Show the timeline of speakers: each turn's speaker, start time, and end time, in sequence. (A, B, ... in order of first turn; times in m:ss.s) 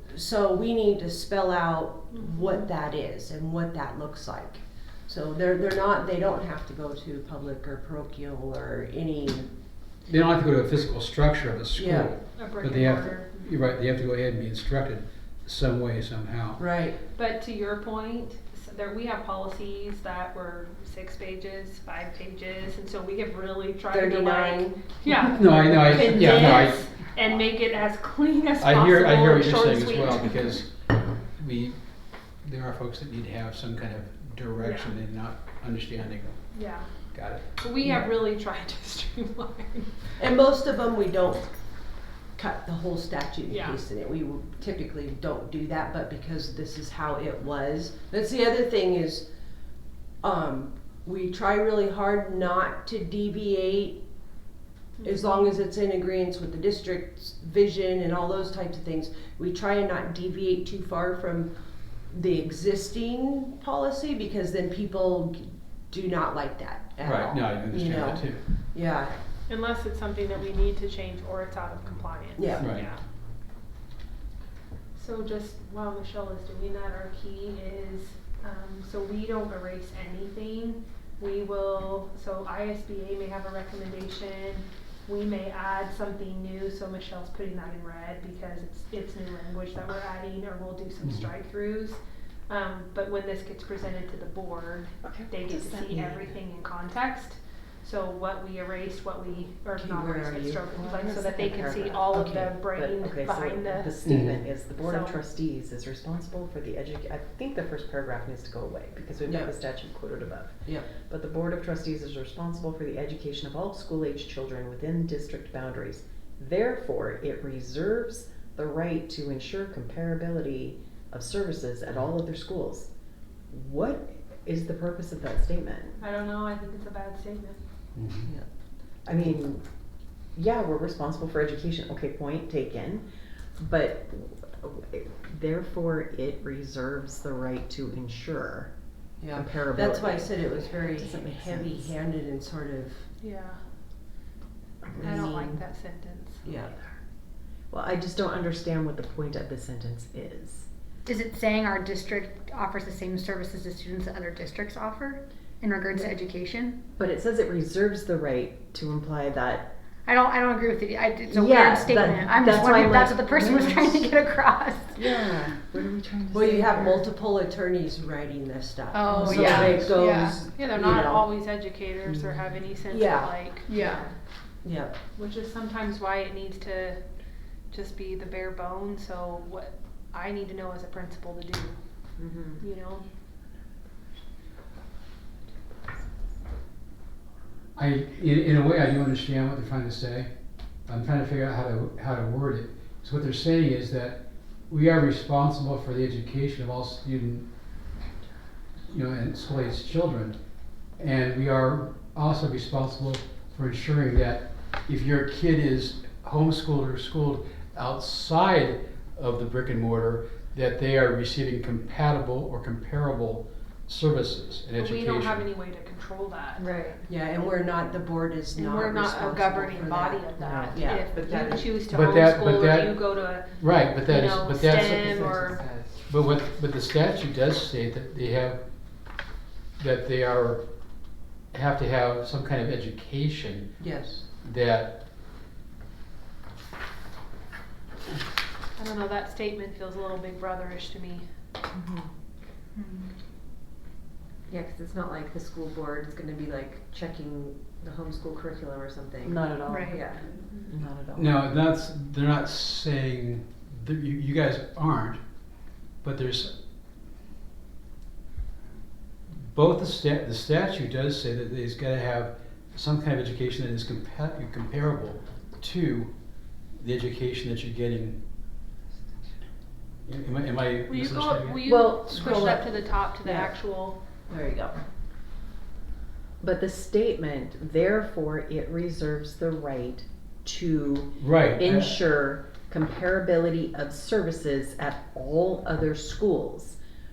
0:00.1-0:09.5 A
0:02.1-0:02.6 B
0:10.0-0:16.6 C
0:11.7-0:12.1 A
0:12.1-0:13.4 B
0:16.6-0:17.0 A
0:17.1-0:30.6 B
0:23.9-0:24.9 A
0:25.3-0:26.8 C
0:25.7-0:26.6 A
0:28.6-0:31.8 C
0:32.4-0:36.4 C
0:34.6-0:35.0 B
0:36.5-0:37.0 B
0:37.1-0:37.4 C
0:37.5-0:40.1 B
0:40.2-0:41.5 A
0:42.4-0:49.3 A
0:43.5-0:43.8 B
0:50.2-0:54.0 A
0:55.0-0:55.5 B
0:55.0-1:01.5 A
1:02.1-1:09.1 A
1:07.0-1:08.4 C
1:09.5-1:13.0 B
1:12.4-1:12.7 A
1:12.6-1:12.9 C
1:14.9-1:45.1 B
1:31.0-1:31.3 C
1:35.0-1:36.3 D
1:39.8-1:40.6 A
1:40.7-2:02.9 D
1:49.2-1:49.5 A
2:03.5-2:06.0 D
2:06.0-2:07.6 B
2:08.0-2:08.3 C
2:09.0-2:09.6 D
2:10.3-2:13.0 D
2:13.6-2:18.7 D
2:19.2-2:23.1 A
2:19.3-2:21.9 D
2:23.2-2:23.6 B
2:24.9-2:25.6 A
2:25.0-2:26.5 B
2:26.4-2:26.7 A
2:27.7-2:30.7 D
2:31.0-2:36.8 E
2:37.0-2:39.7 D
2:40.0-2:45.0 E
2:41.3-2:44.1 D
2:44.9-2:47.0 D
2:46.3-2:51.2 A
2:48.9-2:50.4 E
2:49.1-2:49.9 D
2:49.3-2:49.8 B
2:50.5-2:53.9 B
2:52.9-2:53.3 A
2:53.7-2:54.0 E
2:54.6-2:54.9 A
2:55.2-2:57.0 B
2:57.7-3:01.8 B
3:02.2-3:02.6 D
3:02.6-3:03.0 B
3:07.8-3:10.3 C
3:10.9-3:17.5 C
3:18.9-3:20.4 C
3:21.0-3:35.5 C
3:34.8-3:36.9 B
3:37.1-3:41.6 A
3:38.6-3:45.6 B
3:41.9-3:44.8 C
3:44.6-3:45.9 F
3:46.1-3:48.6 C
3:49.8-3:50.6 C
3:51.5-3:53.8 C
3:53.8-3:54.2 A
3:54.4-3:55.0 C
3:58.8-4:01.2 B
4:02.8-4:03.1 E
4:04.5-4:10.4 F
4:09.2-4:10.0 D
4:09.7-4:10.0 E
4:10.6-4:11.4 D
4:11.1-4:15.2 C
4:16.0-4:16.5 C
4:19.3-4:26.1 C
4:26.8-4:28.2 C
4:30.0-4:31.6 C
4:30.9-4:34.0 B
4:31.6-4:32.5 D
4:32.0-4:33.6 A
4:34.3-4:34.8 A
4:36.4-4:46.8 D
4:41.2-4:42.0 C